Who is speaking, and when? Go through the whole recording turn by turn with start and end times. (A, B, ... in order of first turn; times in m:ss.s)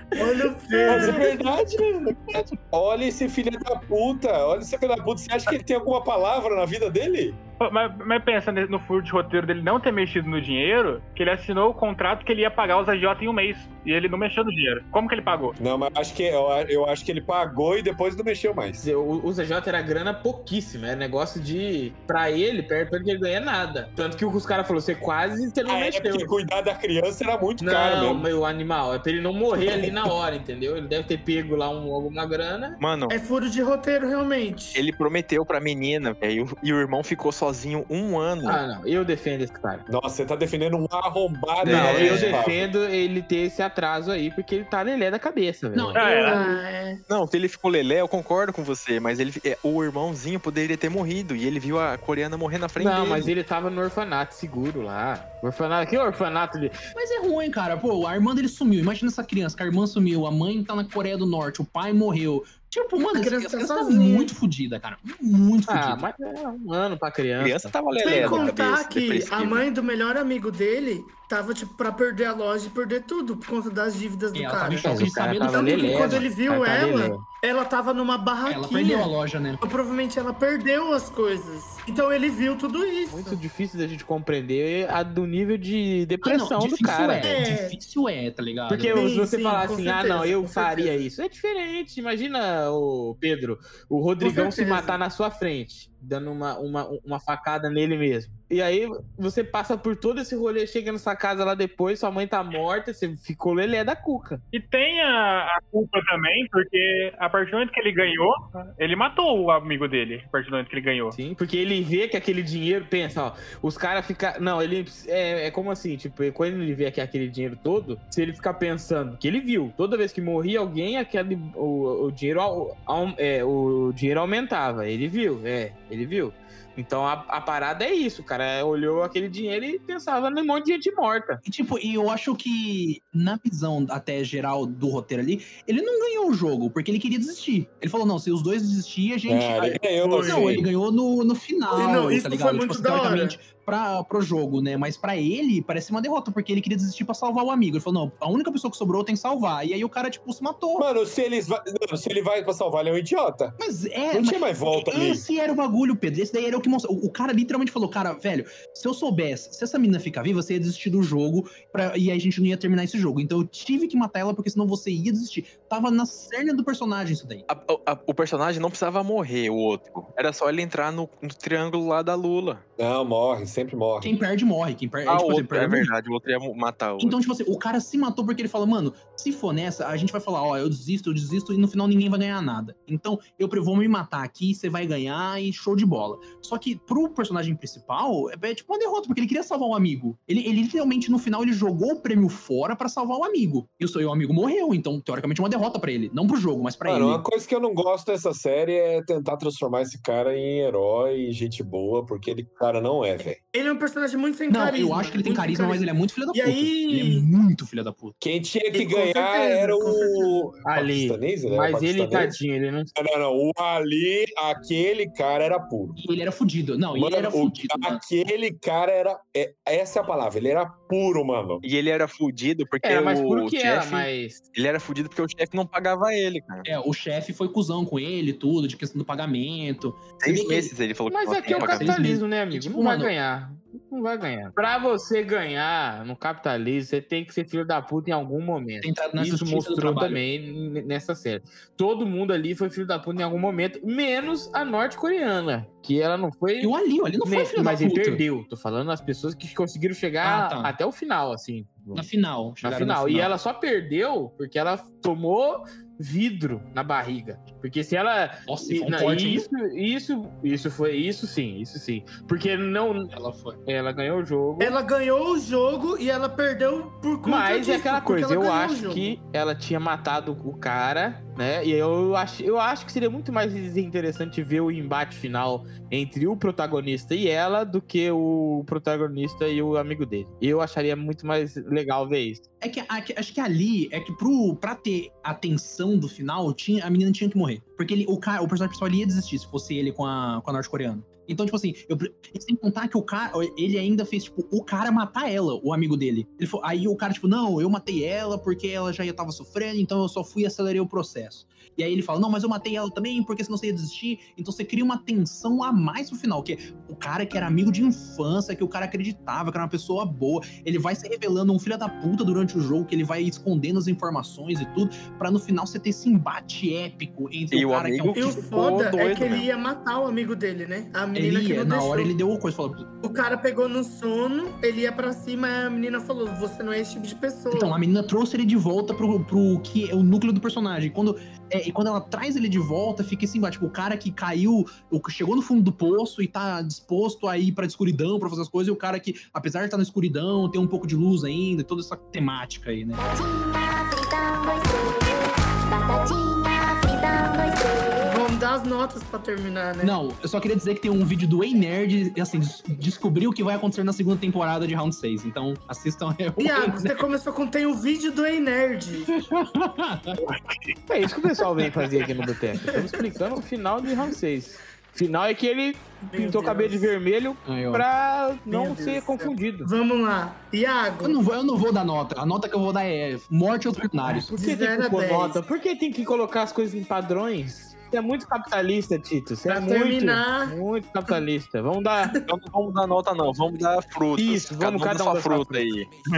0:00.2-0:01.3 A
0:00.7-0:01.3 B
0:00.8-0:07.4 C
0:07.6-0:15.6 D
0:15.6-0:18.8 C
0:18.8-0:26.3 B
0:25.6-0:28.3 C
0:27.6-0:32.8 B
0:32.8-0:33.1 E
0:33.1-0:34.8 A
0:34.7-0:38.6 E
0:38.4-0:39.8 B
0:39.9-0:42.7 C
0:41.6-0:42.5 E
0:41.6-0:46.0 B
0:45.7-0:46.4 F
0:45.9-0:46.4 D
0:46.0-0:47.0 A
0:47.1-0:53.3 E
0:52.8-0:56.8 B
0:56.9-1:06.0 F
1:03.0-1:04.3 A
1:05.7-1:08.5 B
1:07.4-1:09.6 E
1:08.0-1:23.4 A
1:14.3-1:16.3 F
1:14.8-1:17.2 B
1:18.4-1:19.6 F
1:23.1-1:27.3 B
1:26.2-1:29.1 F
1:27.2-1:27.8 A
1:28.7-1:44.4 B
1:28.9-1:31.0 A
1:34.2-1:35.0 A
1:44.5-1:51.2 D
1:51.1-2:11.4 B
2:11.4-2:30.8 F
2:19.3-2:20.7 C
2:20.2-2:20.6 A
2:21.7-2:23.4 A
2:30.8-2:33.6 C
2:33.6-2:47.4 F
2:34.1-2:35.2 C
2:47.5-2:52.6 E
2:52.8-2:54.1 C
2:54.0-2:55.9 F
2:55.0-2:57.2 E
2:57.0-3:17.2 F
3:16.9-3:23.4 C
3:23.5-3:27.3 A
3:24.5-3:28.2 F
3:28.2-3:32.4 C
3:28.7-3:30.5 A
3:30.6-3:32.9 B
3:32.9-3:36.0 C
3:36.0-3:38.0 F
3:36.9-3:41.6 C
3:41.6-3:46.6 E
3:42.8-3:44.4 B
3:46.6-3:50.7 F
3:50.2-3:52.0 E
3:51.1-4:06.7 B
3:51.5-3:53.1 F
3:58.8-4:00.2 F
4:06.6-4:08.2 F
4:07.2-4:12.0 B
4:10.2-4:10.8 F
4:11.9-4:13.3 F
4:12.6-4:24.8 B
4:18.5-4:19.5 F
4:23.1-4:23.6 F
4:24.6-4:29.2 A
4:27.2-4:42.4 B
4:42.6-5:18.5 F
5:17.5-5:19.5 E
5:18.1-5:22.1 A
5:21.1-5:22.9 F
5:23.0-5:27.8 A
5:27.5-5:43.0 F
5:43.0-5:48.2 G
5:48.0-5:50.0 A
5:49.8-5:57.0 F
5:56.4-5:59.1 A
5:59.0-6:00.2 F
6:00.9-6:09.7 B
6:02.6-6:02.8 A
6:06.0-6:06.9 A
6:07.4-6:07.8 F
6:08.5-6:11.2 A
6:11.0-6:14.3 F
6:14.2-6:15.4 A
6:14.3-6:22.2 B
6:19.4-6:20.6 A
6:22.2-6:25.9 E
6:24.2-6:25.7 B